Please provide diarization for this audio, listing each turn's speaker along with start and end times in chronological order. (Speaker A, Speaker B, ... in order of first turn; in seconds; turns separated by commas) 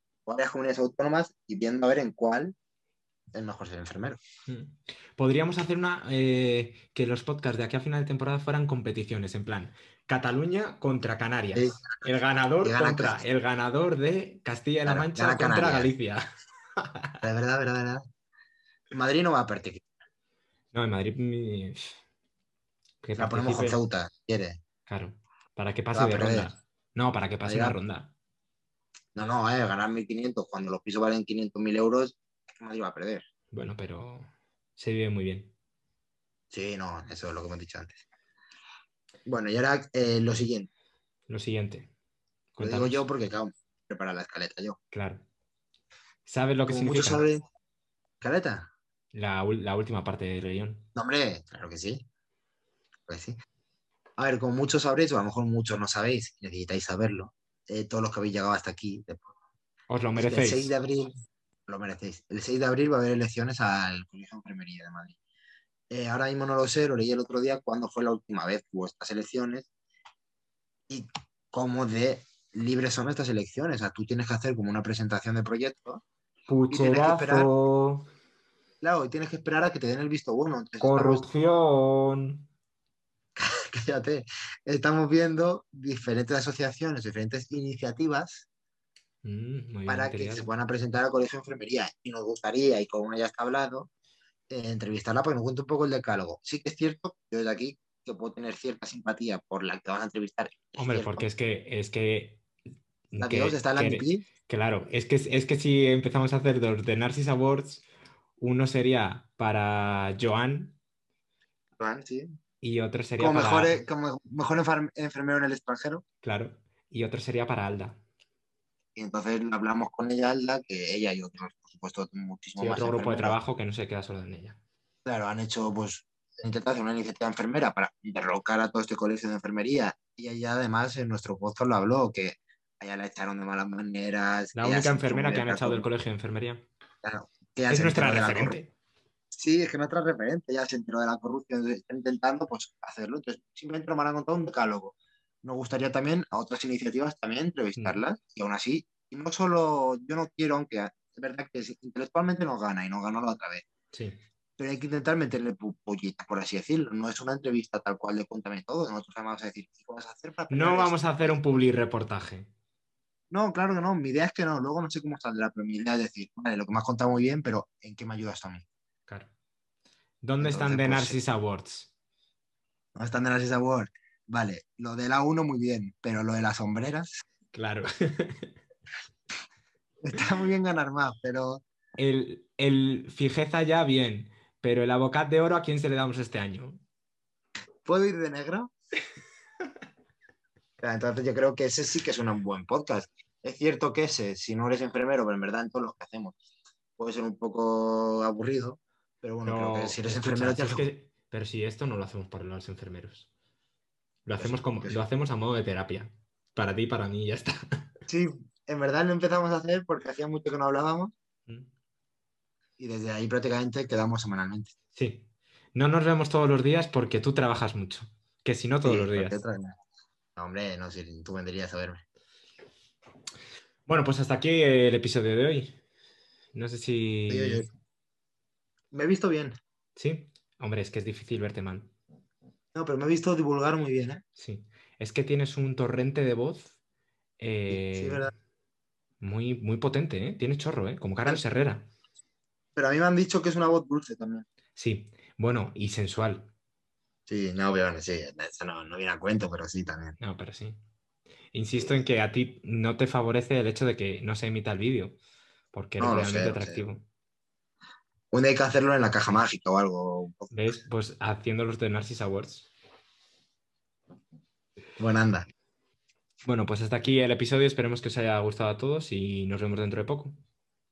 Speaker A: 0.3-2.5, Speaker A: 3.3-4.2, Speaker B: 4.5-16.2, Speaker A: 11.5-11.8, Speaker A: 12.6-13.2, Speaker A: 14.9-15.9, Speaker B: 16.8-17.2, Speaker A: 17.2-18.1, Speaker A: 18.9-19.8, Speaker B: 20.7-22.0, Speaker B: 23.0-23.8, Speaker A: 23.2-24.6, Speaker B: 24.9-28.1, Speaker A: 25.9-26.5, Speaker A: 27.4-27.8, Speaker A: 29.1-33.2, Speaker B: 33.5-35.5, Speaker A: 36.5-38.0, Speaker A: 39.3-40.7, Speaker B: 41.3-41.9, Speaker B: 42.5-43.1, Speaker A: 42.6-44.8, Speaker B: 44.9-45.2, Speaker B: 46.3-47.3, Speaker A: 46.7-47.4, Speaker A: 48.2-48.7, Speaker B: 49.1-50.9, Speaker A: 51.0-52.0, Speaker A: 53.1-53.4, Speaker A: 54.2-59.3, Speaker B: 59.9-60.7, Speaker A: 60.2-61.1, Speaker A: 61.7-65.2, Speaker A: 65.9-69.7, Speaker A: 70.9-76.0, Speaker B: 76.5-78.1, Speaker A: 76.7-77.5, Speaker A: 78.8-81.3, Speaker B: 80.8-82.5, Speaker A: 83.4-88.5, Speaker B: 89.2-90.5, Speaker A: 89.9-93.9, Speaker A: 94.5-101.2, Speaker B: 100.8-102.4, Speaker B: 103.1-107.8, Speaker A: 103.2-104.2, Speaker B: 108.4-110.8, Speaker A: 111.8-112.3, Speaker B: 112.6-113.8, Speaker A: 113.2-116.0, Speaker B: 116.2-118.0, Speaker A: 119.0-123.4, Speaker B: 122.6-124.6, Speaker A: 125.0-135.9, Speaker B: 134.6-136.7, Speaker A: 137.0-138.6, Speaker B: 137.7-138.7, Speaker A: 139.3-153.7, Speaker B: 153.9-154.2, Speaker A: 154.6-161.4, Speaker B: 160.5-162.5, Speaker A: 163.3-168.7, Speaker B: 170.2-171.9, Speaker A: 170.4-171.2, Speaker A: 172.9-177.2, Speaker B: 177.5-178.5, Speaker A: 180.0-181.6, Speaker B: 182.0-186.8, Speaker A: 187.8-188.7, Speaker A: 190.8-196.4, Speaker A: 197.0-200.9, Speaker B: 199.5-203.3, Speaker B: 204.3-207.9, Speaker A: 204.4-205.0, Speaker A: 208.1-211.1, Speaker A: 212.8-214.7, Speaker B: 214.9-219.4, Speaker A: 218.8-219.8, Speaker A: 220.4-222.0, Speaker B: 223.9-225.8, Speaker B: 226.5-227.7, Speaker A: 227.3-227.7, Speaker A: 228.9-229.6, Speaker B: 230.0-231.9, Speaker A: 232.7-234.2, Speaker B: 234.4-236.8, Speaker B: 237.4-238.3, Speaker A: 237.7-238.3, Speaker B: 239.2-241.9, Speaker A: 242.8-244.5, Speaker B: 244.8-246.5, Speaker A: 247.3-250.2, Speaker B: 250.2-250.8, Speaker B: 251.5-255.2, Speaker B: 255.7-257.1, Speaker A: 256.0-256.8, Speaker A: 258.3-260.5, Speaker B: 260.5-262.7, Speaker A: 265.0-265.5, Speaker B: 266.4-270.4